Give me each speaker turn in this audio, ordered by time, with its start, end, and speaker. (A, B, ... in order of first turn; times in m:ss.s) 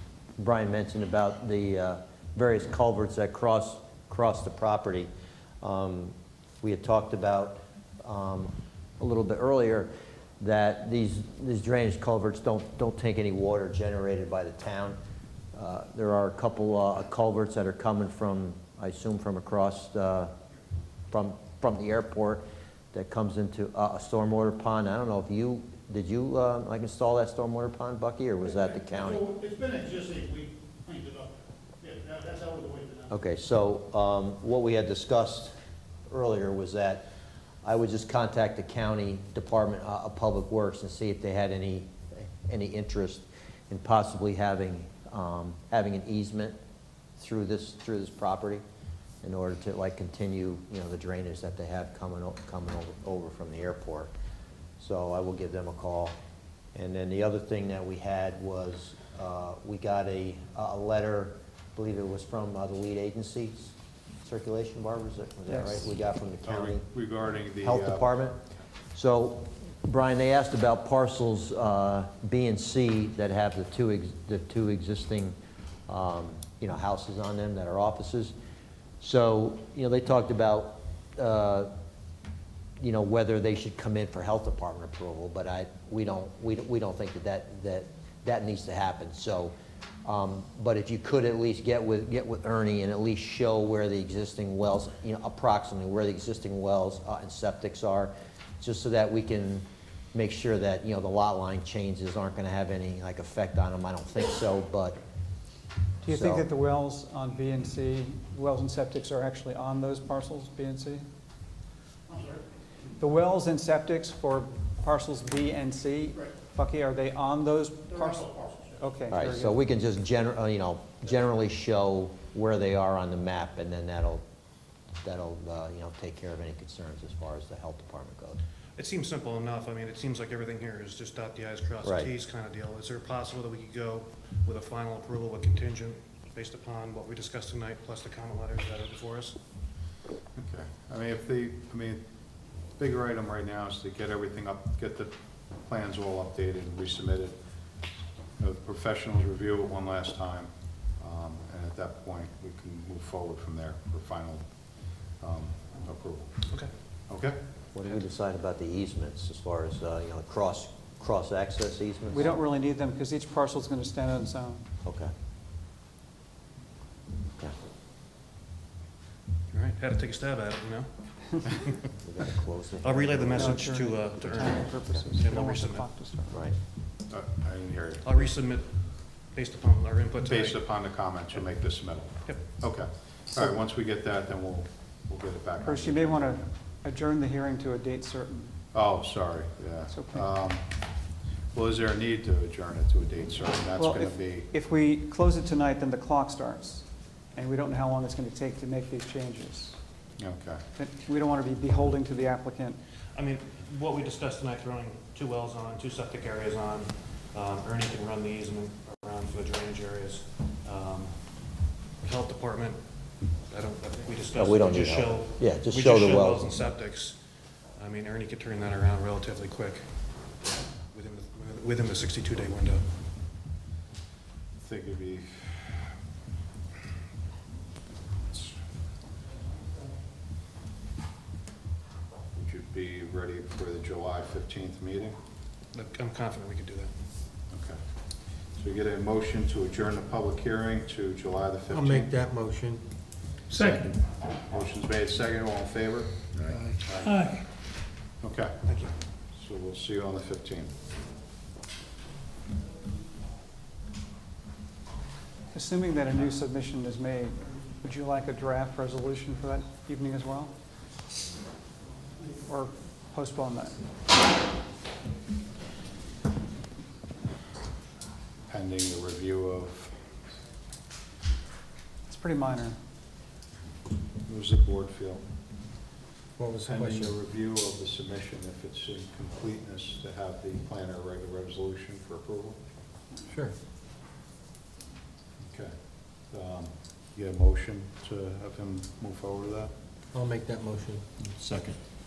0:00.4-0:05.1 A
0:05.6-0:15.0 A
0:15.5-0:20.3 A
0:21.1-0:29.3 A
0:29.2-0:33.0 B
0:33.1-0:35.5 A
0:36.1-0:37.1 A
0:37.6-0:46.6 A
0:47.2-0:48.6 A
0:49.2-0:54.1 A
0:54.8-0:56.2 A
0:56.7-1:06.9 A
1:05.5-1:05.8 C
1:06.4-1:08.2 D
1:07.6-1:08.4 A
1:08.9-1:15.4 A
1:15.9-1:18.3 A
1:19.0-1:21.7 A
1:22.8-1:29.5 A
1:30.0-1:45.0 A
1:46.0-1:51.1 C
1:46.0-1:46.5 A
1:53.0-1:59.6 C
1:58.2-1:58.6 B
1:59.1-2:04.2 A
2:05.0-2:08.4 A
2:08.8-2:19.4 E
2:11.8-2:12.1 A
2:20.4-2:22.0 D
2:22.8-2:27.4 D
2:28.4-2:36.5 D
2:37.1-2:37.4 D
2:37.7-2:42.4 A
2:42.1-2:44.7 C
2:44.8-2:45.1 A
2:49.5-2:51.8 E
2:52.0-2:53.6 A
2:52.8-2:55.9 E
2:53.3-2:56.4 C
2:56.3-2:56.6 A
2:57.1-2:58.3 D
2:58.0-3:00.6 E
3:00.2-3:06.5 D
3:05.6-3:08.6 C
3:08.7-3:10.8 D
3:09.9-3:10.2 C
3:11.5-3:14.5 D
3:13.8-3:19.8 C
3:20.2-3:20.6 D
3:20.8-3:22.8 C
3:23.2-3:31.2 E
3:32.0-3:32.8 E
3:33.5-3:37.2 E
3:34.4-3:36.5 A
3:37.8-3:42.8 E
3:44.6-3:46.0 D
3:48.3-3:48.6 D
3:52.3-3:55.2 D
3:55.7-3:56.9 E
3:57.5-3:57.8 D
3:58.6-4:02.1 D
4:01.7-4:02.8 F
4:03.5-4:07.4 D
4:06.5-4:06.9 F
4:08.2-4:08.7 D
4:08.7-4:08.9 E
4:09.3-4:10.7 D
4:15.5-4:20.5 C
4:22.4-4:23.8 C
4:28.5-4:30.0 D
4:32.1-4:32.8 C
4:34.3-4:35.3 D
4:36.4-4:37.1 F
4:36.6-4:42.6 D
4:43.3-4:43.6 F
4:45.4-4:49.7 D
4:50.1-4:51.1 F
4:51.4-4:51.8 A